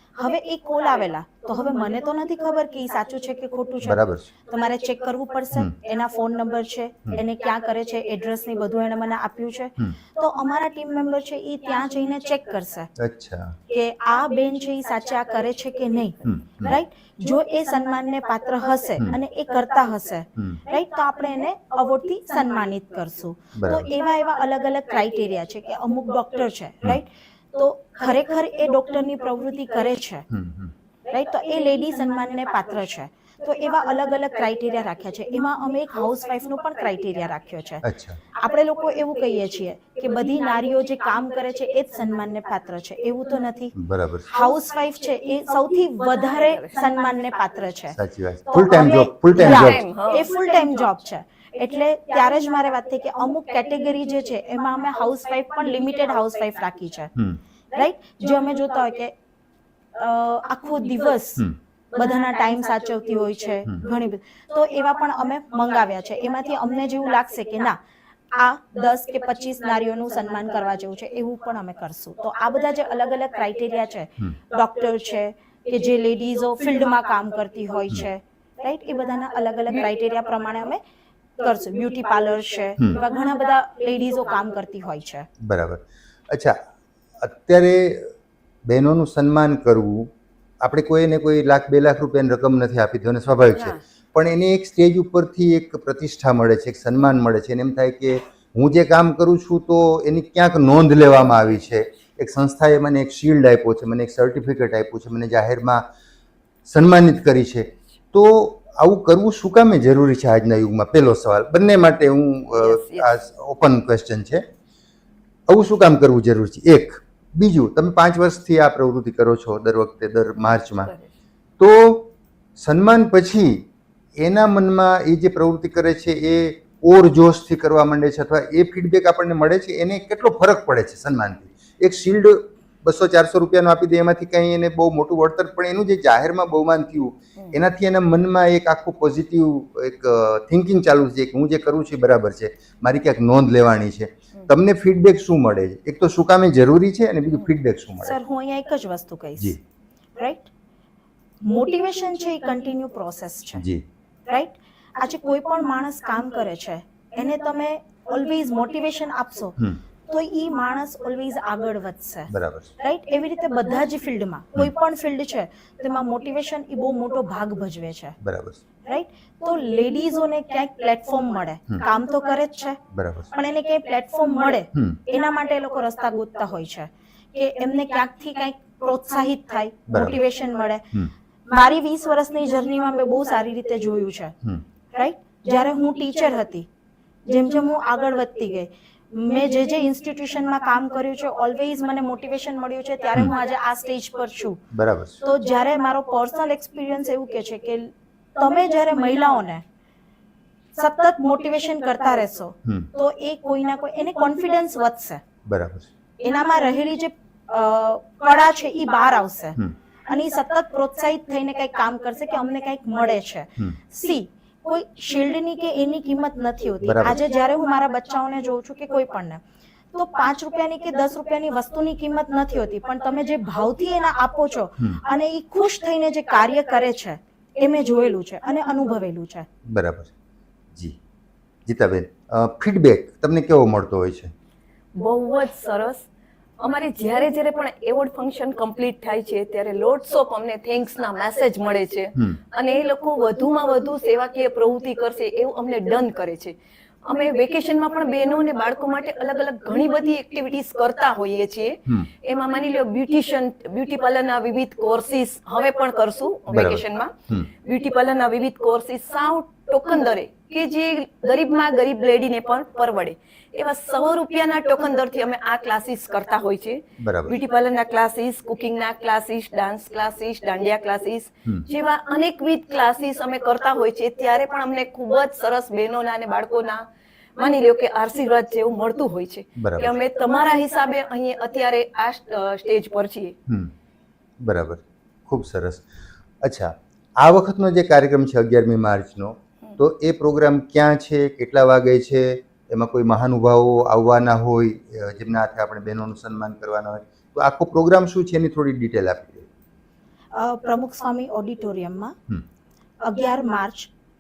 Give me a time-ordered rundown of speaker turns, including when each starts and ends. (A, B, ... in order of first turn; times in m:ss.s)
0:00.2-0:12.9 A
0:03.8-0:04.3 B
0:13.0-0:13.6 B
0:13.7-0:30.2 A
0:16.2-0:16.8 B
0:23.5-0:23.9 B
0:30.3-0:30.7 B
0:31.1-0:37.8 A
0:37.8-0:38.2 B
0:38.4-0:43.7 A
0:43.8-0:44.3 B
0:44.3-0:48.0 A
0:47.9-0:49.8 B
0:48.5-0:57.1 A
0:49.4-0:50.3 C
0:57.7-0:59.1 A
1:00.0-1:07.8 A
1:08.3-1:20.8 A
1:21.4-1:25.3 A
1:25.4-1:26.6 B
1:27.2-1:28.1 B
1:28.6-1:45.8 B
1:33.5-1:33.8 C
1:46.6-1:54.4 B
1:52.5-1:53.1 C
1:55.5-2:00.9 B
2:00.6-2:01.1 C
2:01.6-2:03.6 B
2:04.2-2:28.2 B
2:28.0-2:29.6 A
2:30.2-2:30.5 A
2:31.4-2:33.6 A
2:33.6-2:33.8 B
2:34.3-2:39.6 A
2:40.1-2:48.2 A
2:42.3-2:42.7 B
2:48.2-2:48.6 B
2:48.9-2:52.8 A
2:52.9-2:53.3 B
2:53.3-3:00.9 A
2:59.9-3:00.2 B
3:01.5-3:04.3 A
3:04.9-3:06.7 A
3:07.3-3:14.6 A
3:14.7-3:15.2 B
3:15.2-3:19.6 A
3:20.8-3:25.2 A
3:25.4-3:25.9 B
3:26.2-3:39.4 A
3:36.8-3:37.2 B
3:39.9-3:49.5 A
3:49.7-3:50.1 B
3:51.6-3:54.3 B
3:54.9-3:56.0 C
3:56.6-4:36.8 C
4:16.5-4:17.5 B
4:27.0-4:27.4 B
4:37.4-4:43.3 C
4:39.6-4:40.0 B
4:43.5-4:43.7 B
4:44.4-4:45.8 B
4:46.4-4:59.5 B
5:00.3-5:02.1 A
5:03.0-5:03.9 A